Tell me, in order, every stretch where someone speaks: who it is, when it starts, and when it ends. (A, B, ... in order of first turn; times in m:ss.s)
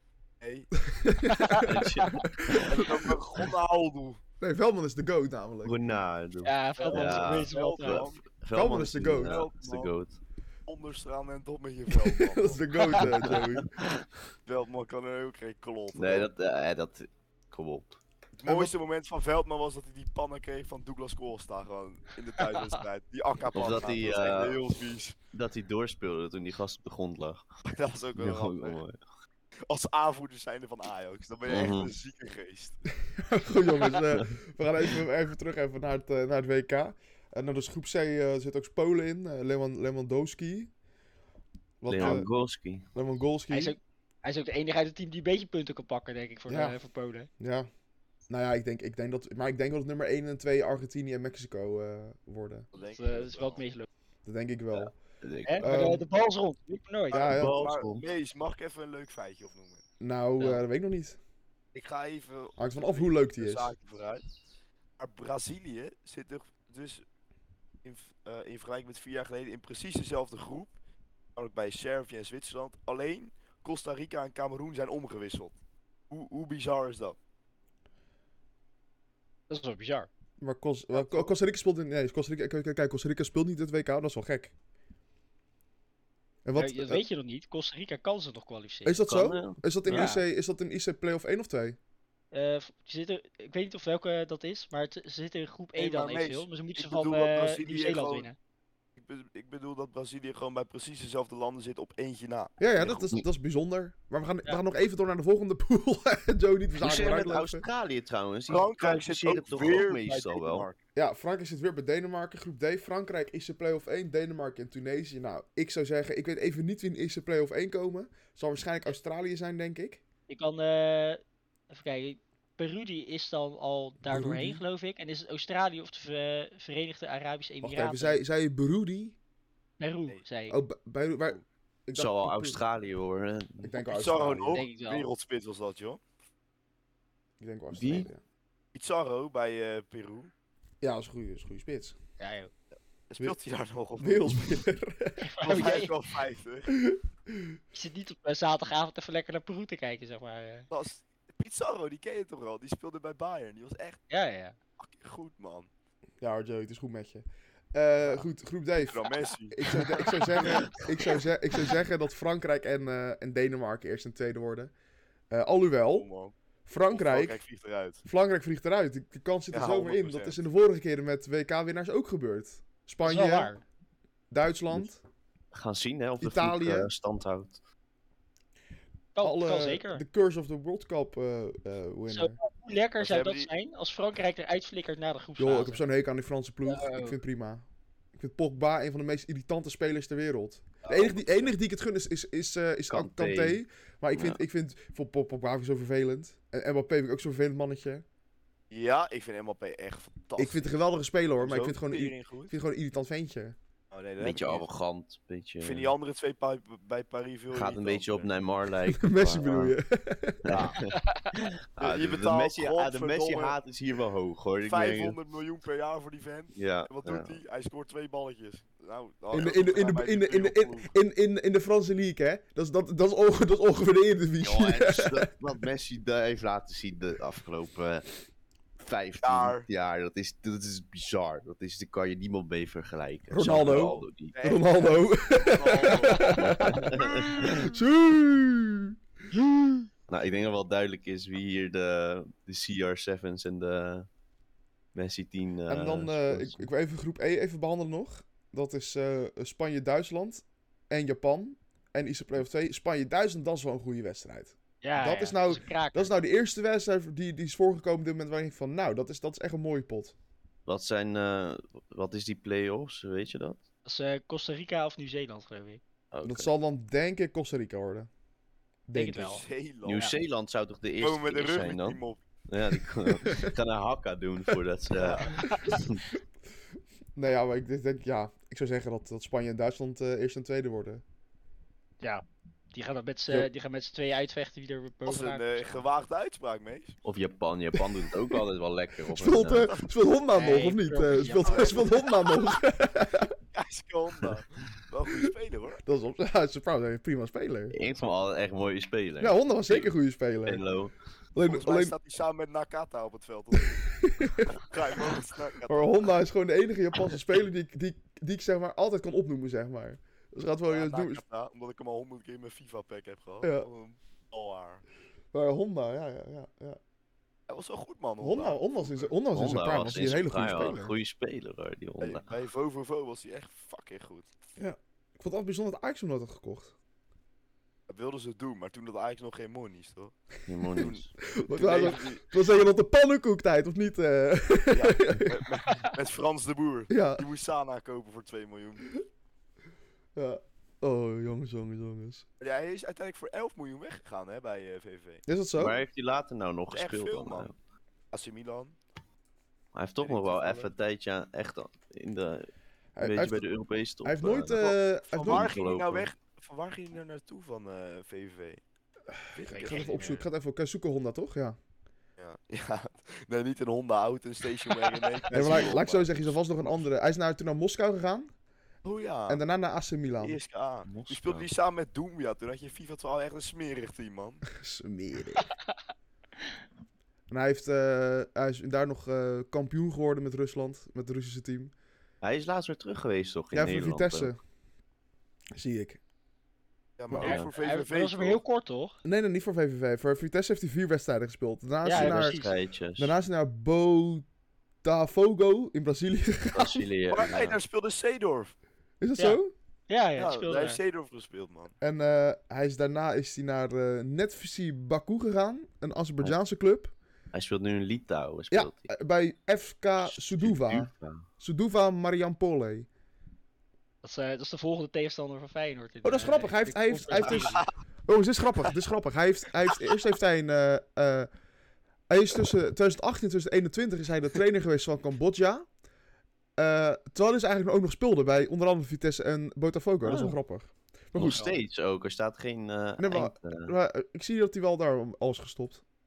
0:00.4-0:00.7 A
0:00.8-0:02.7 B
0:01.2-0:02.2 C
0:01.6-0:03.1 D
0:02.6-0:04.2 A
0:04.4-0:05.8 B
0:05.6-0:10.2 D
0:06.4-0:08.1 C
0:06.8-0:08.2 A
0:08.5-0:09.4 B
0:09.2-0:09.9 A
0:10.7-0:12.6 A
0:11.9-0:13.7 B
0:13.0-0:14.0 D
0:14.4-0:16.3 A
0:15.9-0:18.0 D
0:18.4-0:25.2 A
0:18.4-0:18.7 B
0:23.5-0:24.8 D
0:25.3-0:27.4 D
0:27.6-0:28.8 A
0:28.2-0:29.0 D
0:29.7-0:32.8 A
0:31.5-0:31.9 D
0:33.1-0:40.7 B
0:41.8-0:42.3 B
0:41.9-0:42.9 D
0:42.9-0:43.7 B
0:43.5-0:47.3 C
0:46.5-0:46.8 B
0:47.4-0:47.7 B
0:48.3-0:52.7 B
0:52.7-0:53.6 A
0:52.9-0:53.9 C
0:54.2-0:54.9 B
0:54.7-0:55.7 D
0:55.4-0:57.3 C
0:55.6-0:56.0 B
0:57.1-0:57.7 B
0:57.1-0:59.8 A
0:57.3-0:58.0 D
1:00.0-1:01.2 B
1:00.4-1:00.6 C
1:01.7-1:04.2 A
1:02.6-1:03.7 B
1:05.0-1:07.0 A
1:07.8-1:10.7 A
1:11.4-1:15.5 A
1:16.1-1:17.2 A
1:19.5-1:20.1 C
1:20.4-1:24.5 B
1:26.4-1:27.0 B
1:26.6-1:29.0 C
1:28.8-1:31.8 B
1:29.1-1:30.1 D
1:29.9-1:30.2 C
1:32.3-1:38.3 C
1:35.8-1:38.3 A
1:39.0-1:42.6 A
1:42.6-1:47.6 B
1:42.8-1:43.2 D
1:46.8-1:50.7 D
1:48.5-1:50.8 A
1:50.9-2:00.0 B
2:00.3-2:08.2 C
2:04.0-2:04.6 B
2:07.6-2:09.2 B
2:09.8-2:10.6 C
2:10.5-2:12.6 B
2:11.9-2:13.7 D
2:13.6-2:14.6 B
2:13.8-2:16.0 A
2:14.5-2:15.1 C
2:17.4-2:18.2 B
2:17.7-2:18.1 D
2:18.7-2:20.3 A
2:20.8-2:22.0 B
2:22.2-2:22.5 C
2:23.1-2:24.5 A
2:24.0-2:25.3 B
2:25.2-2:25.9 C
2:25.4-2:26.7 A
2:26.7-2:27.6 B
2:27.7-2:30.7 C
2:30.7-2:34.0 A
2:34.1-2:34.6 C
2:34.8-2:35.7 A
2:36.2-2:44.7 B
2:38.8-2:40.1 A
2:45.3-2:46.1 B
2:45.9-2:46.3 A
2:46.6-2:47.4 B
2:46.9-2:48.0 A
2:48.0-2:53.5 B
2:49.5-2:50.4 A
2:53.0-2:53.6 C
2:54.3-2:55.0 B
2:55.5-2:57.6 D
2:56.2-2:56.9 B
2:59.1-3:00.0 C
2:59.2-3:02.4 B
3:02.1-3:05.8 C
3:03.0-3:03.5 A
3:05.4-3:18.0 B
3:06.6-3:07.2 C
3:10.8-3:11.5 A
3:12.9-3:13.6 D
3:14.1-3:14.4 D
3:18.7-3:20.7 A
3:20.4-3:23.6 B
3:21.4-3:22.5 A
3:23.9-3:24.7 A
3:24.2-3:25.9 D
3:25.6-3:28.3 A
3:27.5-3:29.8 D
3:28.8-3:30.6 B
3:30.4-3:35.2 D
3:30.5-3:30.8 A
3:30.9-3:31.3 C
3:31.8-3:33.6 A
3:34.6-3:40.9 A
3:36.5-3:37.4 D
3:39.3-3:45.3 B
3:44.4-3:48.1 D
3:48.8-3:54.4 D
3:49.2-3:49.6 A
3:53.3-3:58.9 B
3:53.4-3:57.0 A
3:56.3-3:57.7 D
3:59.4-3:59.8 C
4:00.1-4:04.1 D
4:04.9-4:06.6 D
4:05.7-4:20.1 B
4:14.8-4:16.1 C
4:20.6-4:23.6 D
4:23.8-4:25.8 C
4:26.1-4:26.5 D
4:26.2-4:28.1 B
4:28.9-4:29.4 B
4:28.9-4:29.4 C
4:29.2-4:30.1 A
4:29.8-4:36.0 D
4:31.0-4:32.2 A
4:33.1-4:33.5 B
4:35.0-4:35.4 A
4:35.4-4:35.7 C
4:37.1-4:41.0 B
4:42.0-4:45.8 C
4:45.0-4:47.0 A
4:47.0-4:49.7 D
4:49.1-4:53.3 B
4:50.3-4:51.8 C
4:51.4-4:52.1 A
4:53.5-4:55.8 A
4:55.8-4:57.7 B
4:57.7-4:59.9 D
4:59.2-5:00.6 B
5:00.4-5:00.9 D
5:01.3-5:01.9 B
5:01.4-5:03.9 A
5:03.8-5:04.6 B
5:04.4-5:05.9 A
5:05.7-5:11.2 B
5:10.7-5:14.8 A
5:13.4-5:13.7 B
5:15.3-5:16.8 B
5:17.5-5:19.1 A
5:18.2-5:20.9 B
5:19.3-5:22.3 D
5:22.0-5:24.3 A
5:24.6-5:26.7 B
5:27.9-5:30.1 A
5:30.5-5:31.1 D
5:30.7-5:32.2 A
5:31.3-5:35.4 B
5:34.7-5:38.9 A
5:36.9-5:37.2 B
5:40.1-5:42.2 B
5:42.4-5:45.2 A
5:45.2-5:45.8 B
5:45.6-5:47.5 D
5:46.7-5:47.5 A
5:48.1-5:48.8 A
5:49.7-5:52.5 D
5:50.0-5:50.7 A
5:53.0-5:53.4 B
5:53.0-5:56.1 D
5:54.0-5:55.5 B
5:54.6-5:58.6 A
5:59.3-6:00.0 A
5:59.4-6:01.6 B
5:59.5-6:00.2 C
6:02.2-6:06.8 A
6:05.3-6:08.3 B
6:08.8-6:09.4 A
6:09.3-6:10.4 B
6:10.2-6:14.4 A
6:10.9-6:11.5 D
6:14.5-6:15.5 B
6:17.3-6:21.7 B
6:22.2-6:24.3 D
6:23.5-6:24.4 B
6:25.5-6:26.0 B
6:27.0-6:28.4 A
6:27.2-6:27.5 D
6:27.2-6:29.0 C
6:29.0-6:32.4 B
6:31.8-6:32.5 C
6:31.9-6:33.1 D
6:33.0-6:34.2 B
6:34.8-6:36.9 B
6:36.5-6:37.6 D
6:37.1-6:38.5 A
6:39.0-6:39.5 B
6:39.2-6:40.8 C
6:40.2-6:41.7 A
6:41.8-6:46.9 B
6:47.3-6:48.9 D
6:48.5-6:52.9 B
6:50.0-6:51.2 D
6:54.0-6:57.6 C
6:56.0-7:01.3 B
6:57.3-6:57.7 A
7:02.1-7:05.6 B
7:06.6-7:11.4 B
7:10.0-7:10.4 D
7:11.1-7:13.7 D
7:11.3-7:11.6 C
7:13.0-7:15.8 B